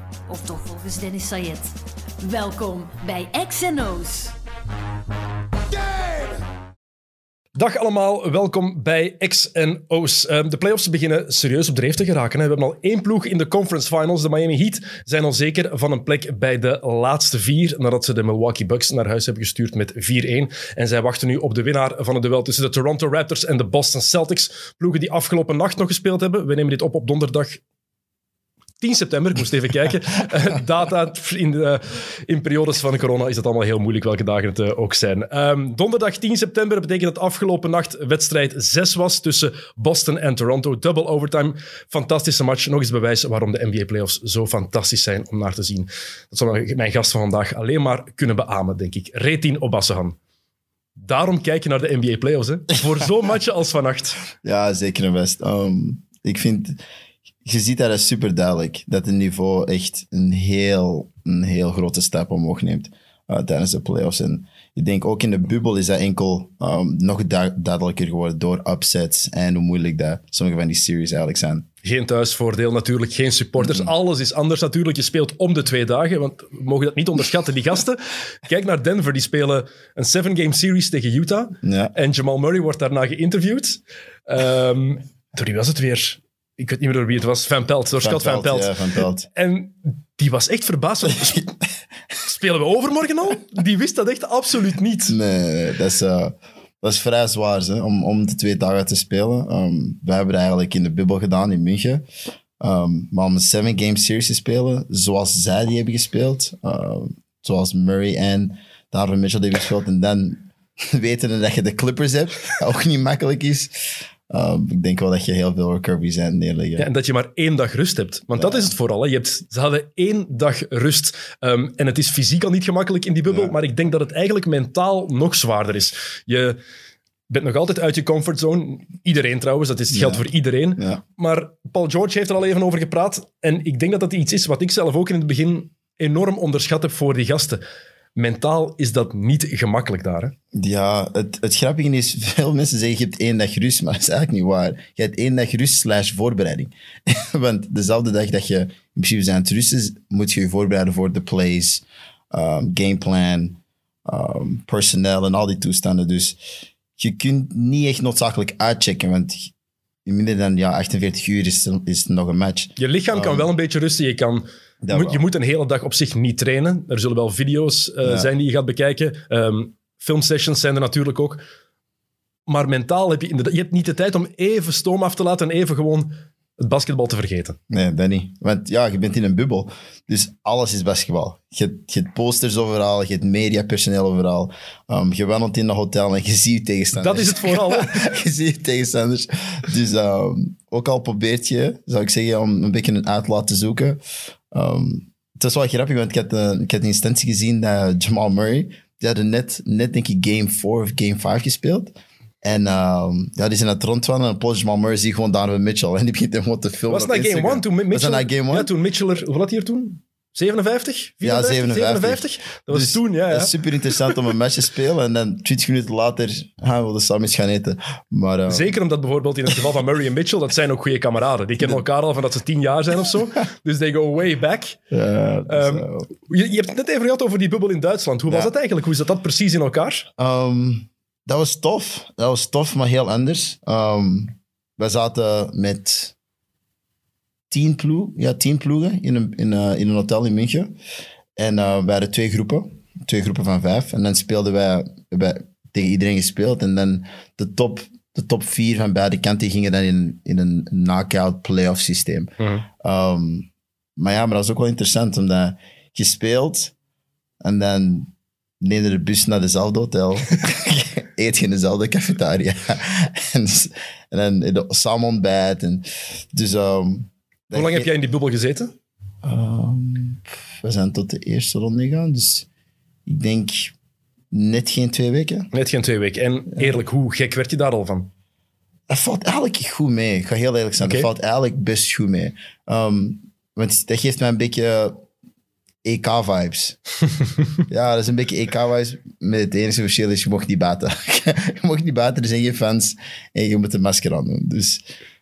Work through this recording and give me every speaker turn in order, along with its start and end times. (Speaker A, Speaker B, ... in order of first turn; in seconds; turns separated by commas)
Speaker A: 0.3-4.3, Speaker B: 7.5-27.6, Speaker B: 28.8-50.2, Speaker B: 51.0-54.2, Speaker C: 54.4-56.8, Speaker C: 57.4-71.7, Speaker B: 71.8-88.7, Speaker C: 73.6-73.9, Speaker C: 81.6-81.9, Speaker C: 88.0-89.3, Speaker B: 89.3-91.5, Speaker B: 92.2-95.2, Speaker C: 95.1-102.0, Speaker C: 102.6-116.8, Speaker B: 116.8-126.6, Speaker C: 118.3-118.7, Speaker B: 127.3-137.6, Speaker C: 129.9-130.2, Speaker B: 138.2-140.3, Speaker C: 140.5-156.4, Speaker C: 156.9-159.5, Speaker C: 160.0-163.5, Speaker B: 162.8-171.4, Speaker C: 164.8-165.2, Speaker B: 172.5-177.6, Speaker C: 177.7-208.7, Speaker B: 186.9-188.1, Speaker B: 206.9-213.5, Speaker C: 211.2-218.8, Speaker B: 218.5-224.8, Speaker C: 224.9-226.1, Speaker B: 225.5-230.1, Speaker C: 230.2-236.1, Speaker C: 237.5-240.7, Speaker C: 241.3-256.7, Speaker B: 252.4-252.6, Speaker C: 257.4-267.9, Speaker B: 267.5-268.7, Speaker C: 269.2-272.5, Speaker C: 273.1-273.7, Speaker C: 274.3-275.5, Speaker B: 275.5-278.1, Speaker C: 278.9-284.9, Speaker B: 280.8-281.1, Speaker C: 285.8-286.8, Speaker C: 287.7-294.8